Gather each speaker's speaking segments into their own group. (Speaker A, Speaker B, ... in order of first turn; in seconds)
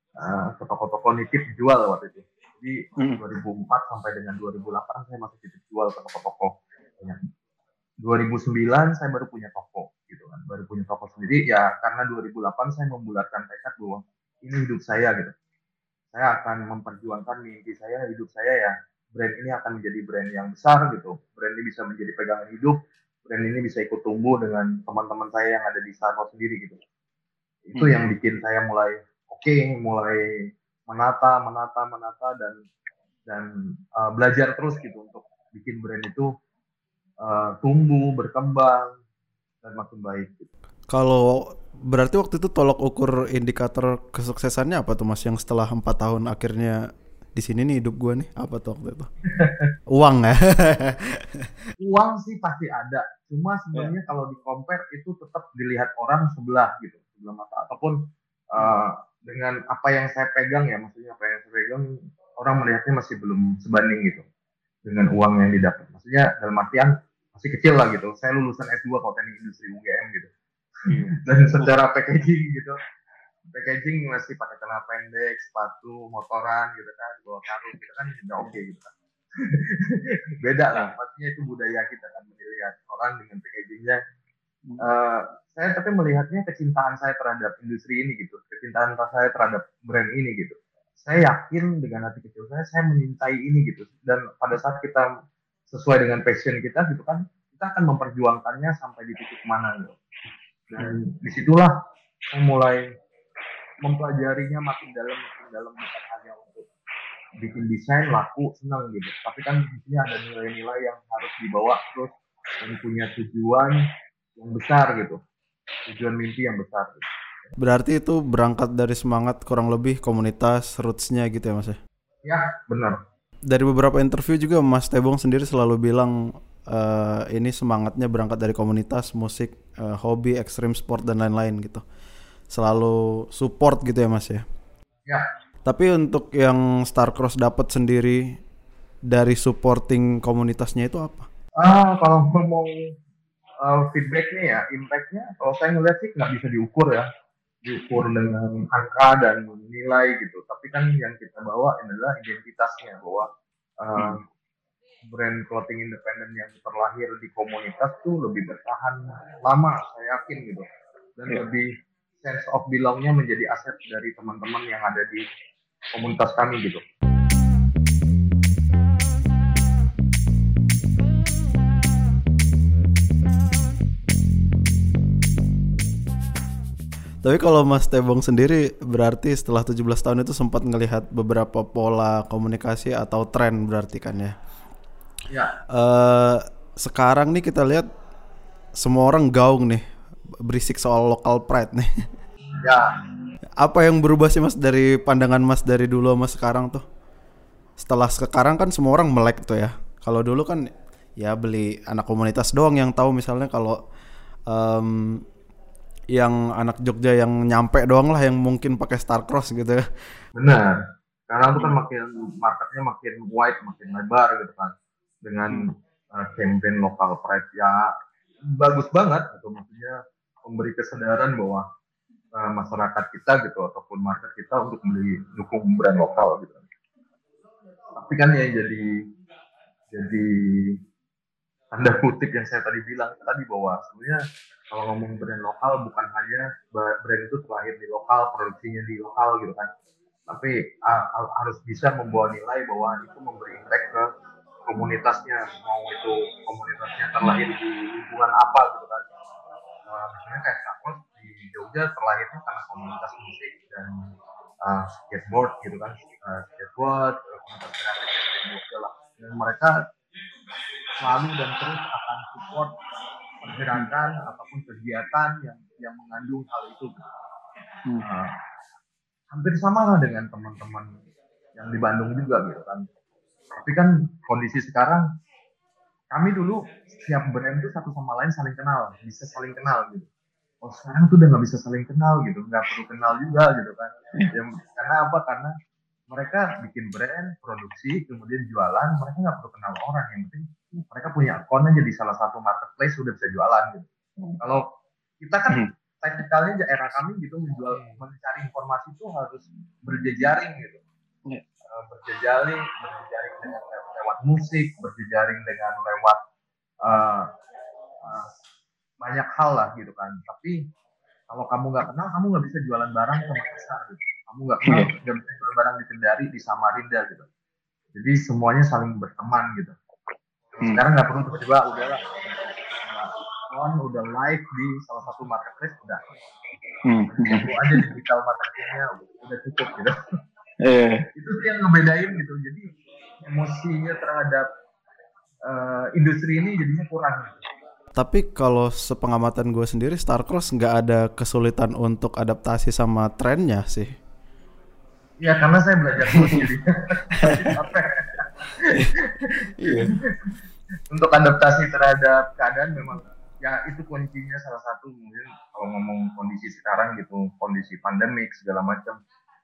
Speaker A: 0.2-7.2, 8.0-15.3, 16.1-22.8, 23.3-26.8, 27.7-30.3, 30.9-32.6, 33.3-36.3, 37.2-39.0, 39.6-40.5, 49.3-49.7, 51.8-57.9, 58.5-61.9, 62.4-64.2, 64.8-70.3, 71.2-72.8, 73.5-78.9, 79.4-84.0, 84.8-95.1, 95.7-100.0, 100.7-101.7, 102.3-102.8, 103.8-106.7, 107.4-113.8, 114.4-115.2, 115.9-117.5, 122.2-123.0, 141.6-142.7, 143.6-147.1, 147.6-153.3, 153.8-154.2, 155.1-161.7, 162.2-165.2, 165.9-166.8, 192.6-192.9, 210.3-217.9, 218.5-221.6, 222.3-226.6, 227.9-228.9, 229.9-230.8, 231.7-234.2, 234.7-239.7, 240.3-244.0, 244.7-249.0, 249.9-254.1, 254.6-259.7, 261.0-262.8, 263.4-266.9, 268.0-268.4, 269.3-270.9, 271.6-272.9, 273.5-275.1, 276.1-280.1, 280.6-285.5, 286.1-293.9, 294.4-294.6, 295.2-300.8, 301.7-306.2, 306.8-307.3, 308.0-308.3, 309.0-310.6, 311.3-317.3, 317.9-319.7, 320.5-326.0, 327.1-329.9, 331.1-332.7, 333.2-334.4, 335.4-337.4, 345.2-349.9, 350.9-359.0
Speaker B: 27.7-28.0, 70.9-71.7, 153.9-154.2, 314.6-314.9, 326.9-327.9, 330.6-331.1, 346.1-346.4
Speaker C: 40.9-46.8, 47.3-49.1, 49.9-51.2, 117.6-121.8, 123.5-126.1, 126.7-131.8, 132.5-134.4, 135.6-138.3, 139.1-141.3, 177.2-184.3, 185.7-187.9, 188.8-189.8, 190.4-191.9, 193.6-196.8, 197.8-200.7, 201.2-203.8, 204.5-205.2, 206.1-209.8, 337.9-343.9